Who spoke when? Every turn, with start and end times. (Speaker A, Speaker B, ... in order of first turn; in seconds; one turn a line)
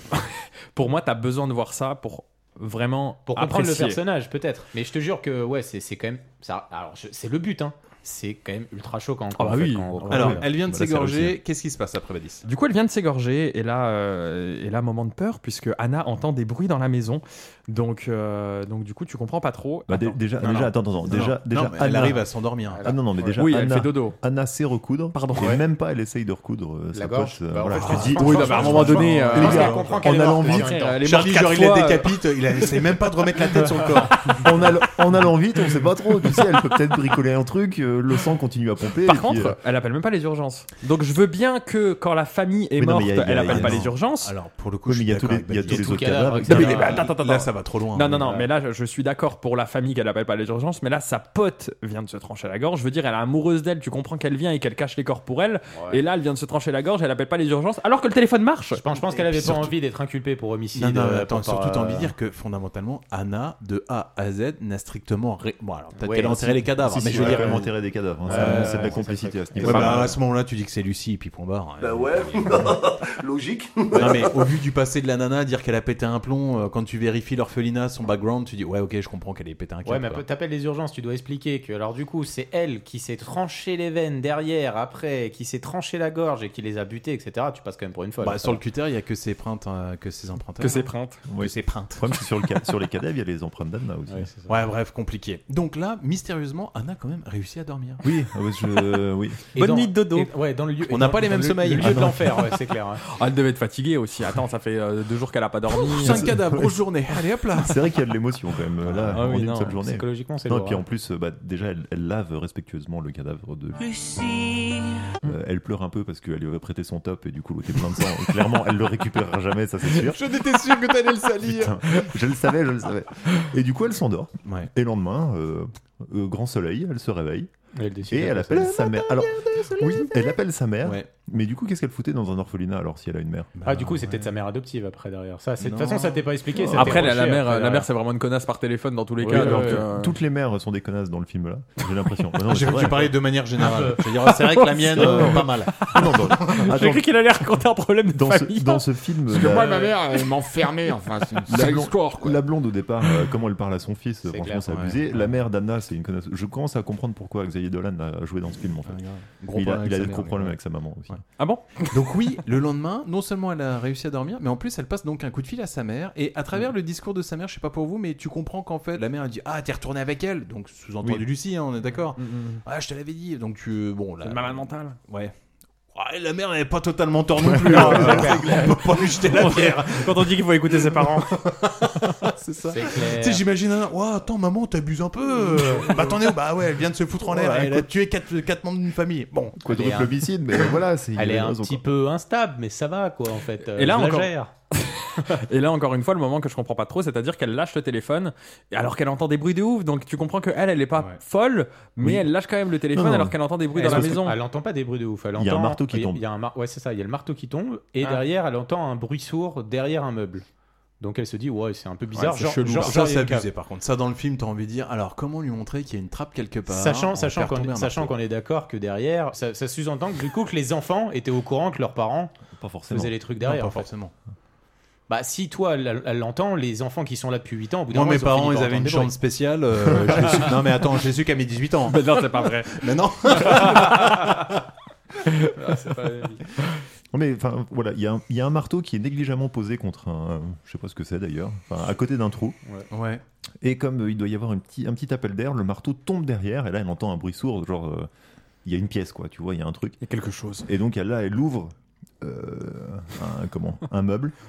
Speaker A: 0.1-4.0
Speaker B: 3.3-10.4
Speaker A: 9.4-10.4
Speaker C: 10.1-11.4
Speaker D: 10.1-12.4
Speaker A: 12.4-20.7
Speaker C: 19.9-30.8
Speaker D: 21.1-22.8
Speaker B: 22.7-23.4
Speaker A: 23.4-24.2
Speaker A: 25.1-25.6
Speaker B: 26.9-31.0
Speaker D: 27.8-29.9
Speaker A: 27.9-32.2
Speaker D: 31.0-34.6
Speaker C: 34.4-39.6
Speaker A: 39.0-44.3
Speaker C: 42.7-43.9
Speaker D: 43.5-48.4
Speaker C: 44.9-47.0
Speaker B: 45.7-47.1
Speaker A: 46.5-58.8
Speaker B: 55.7-56.0
Speaker B: 58.7-62.1
Speaker D: 59.3-59.7
Speaker D: 60.7-67.7
Speaker B: 66.0-67.7
Speaker C: 66.9-70.2
Speaker B: 68.3-70.1
Speaker D: 68.3-69.0
Speaker D: 69.6-72.8
Speaker C: 71.8-74.3
Speaker D: 73.9-80.2
Speaker B: 79.8-88.6
Speaker D: 88.2-90.8
Speaker A: 90.6-91.2
Speaker B: 90.6-90.9
Speaker C: 91.3-94.3
Speaker D: 91.4-92.1
Speaker B: 94.1-94.5
Speaker D: 94.5-98.0
Speaker C: 98.0-99.4
Speaker B: 99.5-103.0
Speaker A: 99.6-100.3
Speaker D: 100.9-102.1
Speaker C: 101.8-102.3
Speaker A: 103.1-106.3
Speaker D: 105.7-107.8
Speaker C: 106.0-106.8
Speaker C: 107.5-113.9
Speaker D: 109.0-109.3
Speaker A: 109.2-109.7
Speaker B: 109.2-110.8
Speaker A: 114.2-114.7
Speaker C: 115.2-120.2
Speaker D: 120.0-121.8
Speaker C: 121.4-127.5
Speaker D: 124.5-124.7
Speaker B: 127.8-128.9
Speaker C: 128.1-133.5
Speaker D: 130.8-131.1
Speaker D: 133.6-134.3
Speaker B: 133.6-137.9
Speaker D: 135.6-136.2
Speaker C: 136.7-137.0
Speaker A: 136.7-140.2
Speaker B: 139.2-139.8
Speaker C: 139.2-143.2
Speaker D: 142.4-146.6
Speaker B: 143.6-144.0
Speaker A: 144.3-148.8
Speaker C: 144.9-147.1
Speaker C: 148.1-149.9
Speaker E: 149.3-152.4
Speaker C: 151.5-161.2
Speaker B: 154.3-154.7
Speaker D: 154.7-155.0
Speaker D: 158.9-160.6
Speaker A: 161.4-161.7
Speaker D: 161.9-175.3
Speaker A: 172.2-172.6
Speaker A: 174.2-175.0
Speaker D: 175.9-189.6
Speaker C: 177.4-178.4
Speaker A: 177.8-178.6
Speaker B: 177.8-178.8
Speaker A: 179.2-181.4
Speaker B: 182.7-183.4
Speaker C: 187.2-187.9
Speaker C: 189.6-191.8
Speaker B: 189.7-190.1
Speaker B: 191.2-194.5
Speaker A: 193.6-204.4
Speaker C: 202.0-202.3
Speaker C: 202.9-204.2
Speaker B: 203.7-210.4
Speaker C: 205.4-206.2
Speaker B: 211.0-213.5
Speaker A: 212.1-212.9
Speaker D: 212.7-218.1
Speaker B: 216.7-222.3
Speaker C: 222.5-223.1
Speaker B: 222.9-223.9
Speaker D: 223.4-224.1
Speaker B: 225.1-229.1
Speaker D: 227.9-234.5
Speaker C: 230.0-230.4
Speaker A: 231.9-234.3
Speaker A: 235.3-236.4
Speaker C: 237.1-242.6
Speaker D: 242.9-243.2
Speaker C: 243.6-248.1
Speaker C: 248.6-250.0
Speaker A: 250.0-250.7
Speaker C: 250.7-254.3